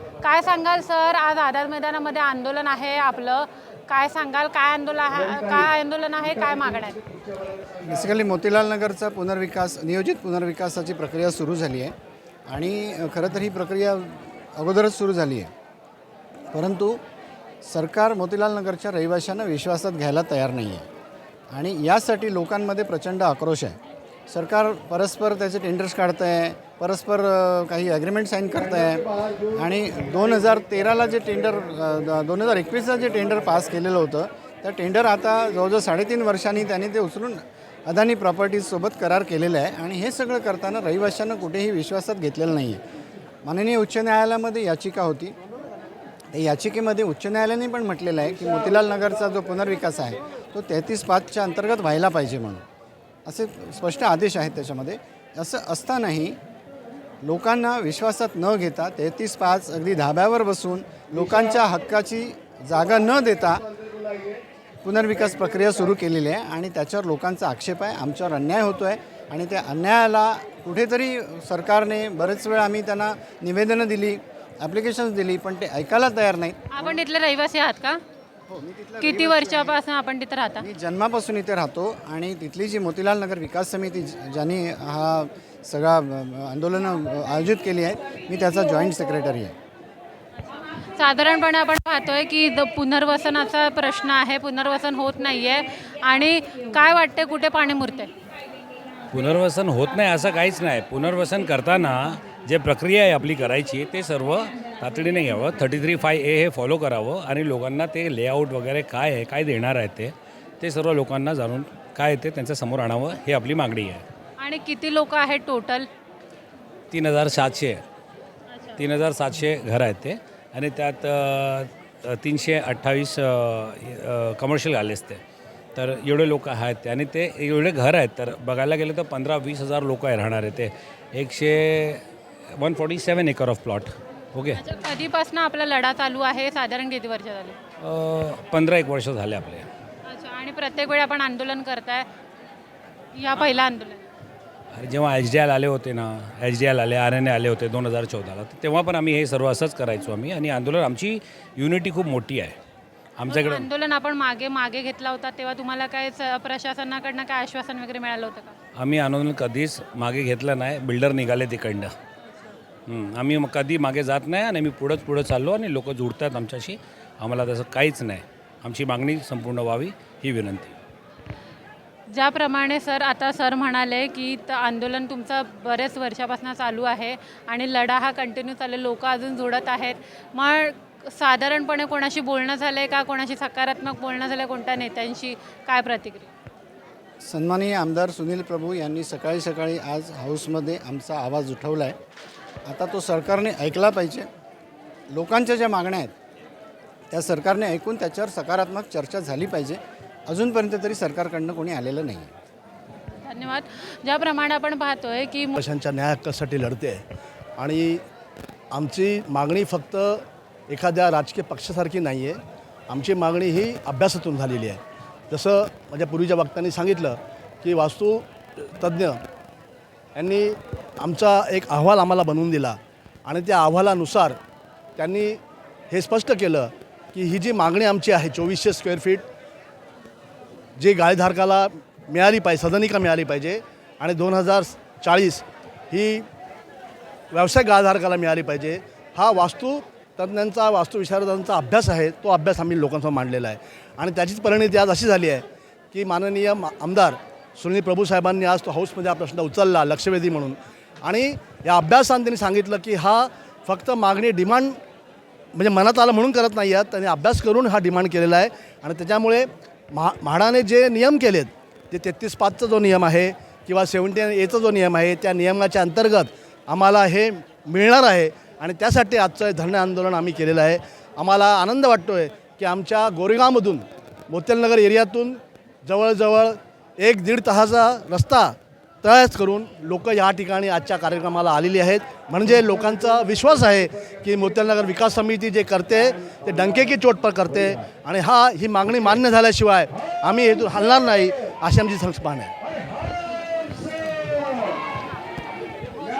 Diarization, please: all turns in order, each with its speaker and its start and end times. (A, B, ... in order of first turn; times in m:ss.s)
0:00.2-0:07.0 A
0:07.8-0:11.9 B
0:12.5-0:15.5 B
0:16.5-0:17.0 B
0:17.6-0:20.8 B
0:21.5-0:23.8 B
0:24.3-0:42.8 B
0:43.4-0:45.4 B
0:46.3-0:52.6 B
0:53.2-0:56.4 B
0:57.2-1:03.6 B
1:04.8-1:17.0 B
1:16.7-1:18.0 A
1:18.5-1:19.8 B
1:19.0-1:20.7 A
1:20.6-1:29.5 B
1:31.0-1:38.1 A
1:39.1-1:54.0 C
1:54.4-1:55.9 A
1:56.9-1:57.8 C
1:58.5-1:58.8 A
1:58.8-2:05.2 C
2:05.7-2:14.6 C
2:14.5-2:17.6 A
2:17.8-2:19.7 C
2:20.0-2:22.1 A
2:23.1-2:24.0 A
2:24.7-2:32.6 C
2:33.2-2:33.7 C
2:33.3-2:38.6 A
2:38.7-2:41.9 C
2:42.2-2:42.6 A
2:42.9-2:50.8 C
2:52.1-3:06.3 A
3:07.2-3:12.0 B
3:12.6-3:14.3 B
3:15.1-3:16.1 B
3:17.1-3:22.3 B
3:23.2-3:25.6 A
3:25.6-3:27.0 D
3:27.6-3:28.0 D
3:28.7-3:39.2 D
3:40.1-3:44.4 D
3:45.0-3:45.4 D
3:45.9-3:49.2 D
3:50.8-3:56.2 D
3:57.3-4:14.8 D
4:15.5-4:52.5 D